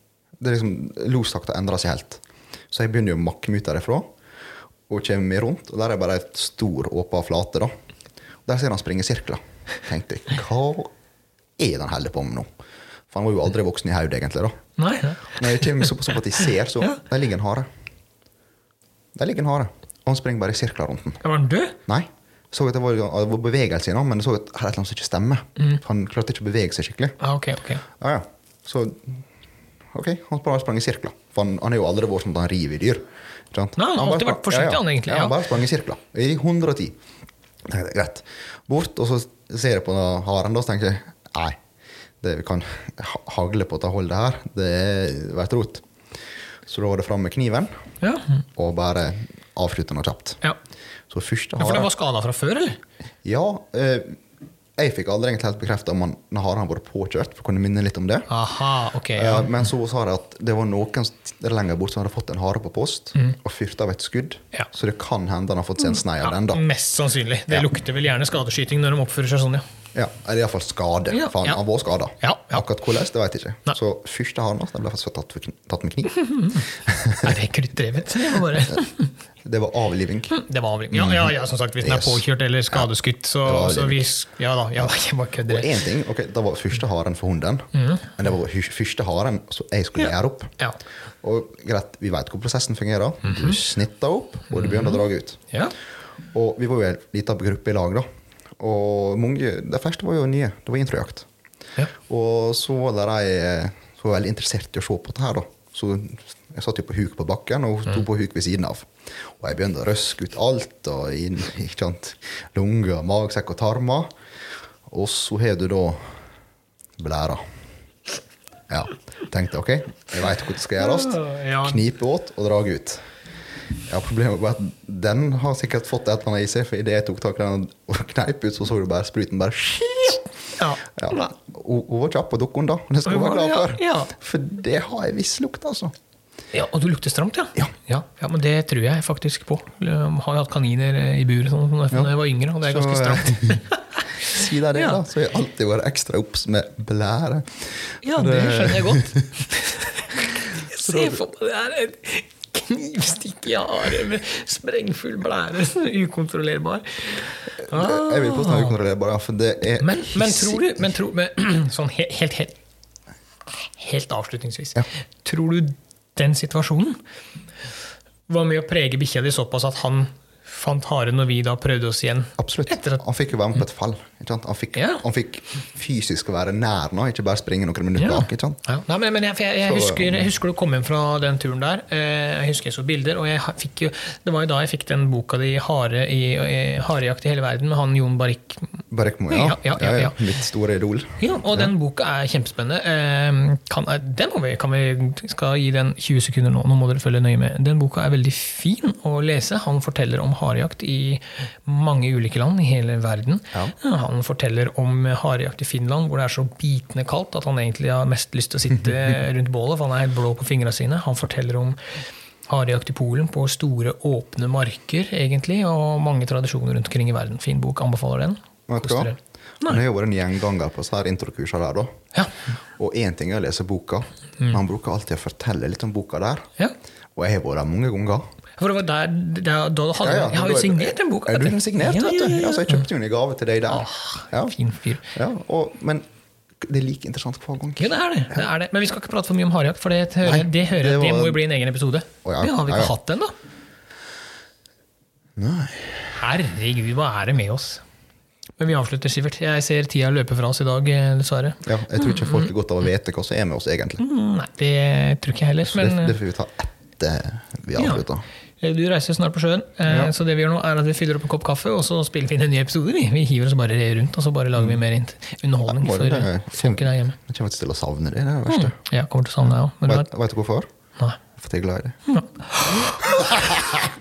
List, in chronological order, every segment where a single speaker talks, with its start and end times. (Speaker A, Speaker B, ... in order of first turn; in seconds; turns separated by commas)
Speaker A: 0.4-4.1, Speaker A: 4.9-7.7, Speaker A: 8.4-10.9, Speaker A: 11.6-12.5, Speaker A: 13.1-14.6, Speaker B: 14.8-15.9, Speaker A: 15.3-17.7, Speaker A: 19.1-21.2, Speaker B: 21.2-21.8, Speaker A: 21.9-27.1, Speaker B: 27.2-27.8, Speaker A: 27.9-29.2, Speaker A: 29.9-37.0, Speaker B: 33.8-35.4, Speaker A: 37.6-41.6, Speaker A: 42.2-45.8, Speaker A: 46.7-47.7, Speaker B: 48.0-48.4, Speaker A: 48.5-50.4, Speaker A: 51.1-51.9, Speaker B: 51.6-52.8, Speaker A: 53.2-54.2, Speaker A: 54.8-58.3, Speaker B: 58.3-59.5, Speaker A: 59.1-66.6, Speaker B: 65.9-69.6, Speaker A: 69.9-77.4, Speaker B: 71.1-71.6, Speaker B: 72.2-72.6, Speaker B: 76.1-76.7, Speaker B: 77.2-79.1, Speaker A: 78.3-78.8, Speaker A: 79.4-80.3, Speaker B: 80.3-85.7, Speaker A: 80.9-82.9, Speaker A: 83.4-84.0, Speaker A: 84.8-90.5, Speaker B: 87.7-88.0, Speaker B: 90.0-90.8, Speaker A: 91.2-95.4, Speaker B: 93.2-93.6, Speaker B: 94.6-95.0, Speaker A: 96.3-98.0, Speaker A: 98.6-101.3, Speaker A: 102.0-114.1, Speaker A: 114.9-116.2, Speaker A: 117.0-117.4, Speaker A: 118.7-123.0, Speaker B: 120.8-121.8, Speaker A: 123.9-130.3, Speaker B: 130.6-131.3, Speaker A: 130.9-135.9, Speaker B: 133.1-134.1, Speaker B: 136.5-144.0, Speaker A: 141.9-143.6, Speaker A: 144.2-149.4, Speaker B: 144.7-145.0, Speaker B: 148.0-158.7, Speaker A: 150.4-151.2, Speaker A: 157.6-160.9, Speaker B: 159.8-162.6, Speaker B: 163.6-167.0, Speaker B: 168.3-173.0, Speaker A: 172.4-178.6, Speaker B: 174.7-175.0, Speaker B: 178.0-188.8, Speaker A: 179.6-180.3, Speaker A: 188.9-191.7, Speaker B: 189.3-190.2, Speaker B: 191.2-219.8, Speaker A: 218.7-221.9, Speaker A: 222.8-226.5, Speaker A: 227.2-228.3, Speaker B: 228.6-232.9, Speaker A: 230.0-234.6, Speaker B: 233.7-235.0, Speaker A: 235.1-236.0, Speaker A: 236.6-238.4, Speaker B: 237.8-243.3, Speaker A: 240.2-241.4, Speaker A: 242.2-242.9, Speaker A: 245.4-246.2, Speaker B: 246.2-247.8, Speaker B: 248.6-252.5, Speaker A: 251.6-254.0, Speaker B: 254.0-256.1, Speaker A: 255.6-258.2, Speaker B: 257.8-258.0, Speaker B: 258.6-267.2, Speaker A: 259.9-260.1, Speaker A: 264.6-264.8, Speaker A: 265.6-268.8, Speaker B: 268.5-270.1, Speaker A: 269.8-270.7, Speaker A: 271.4-272.0, Speaker B: 272.1-273.6, Speaker A: 272.9-273.8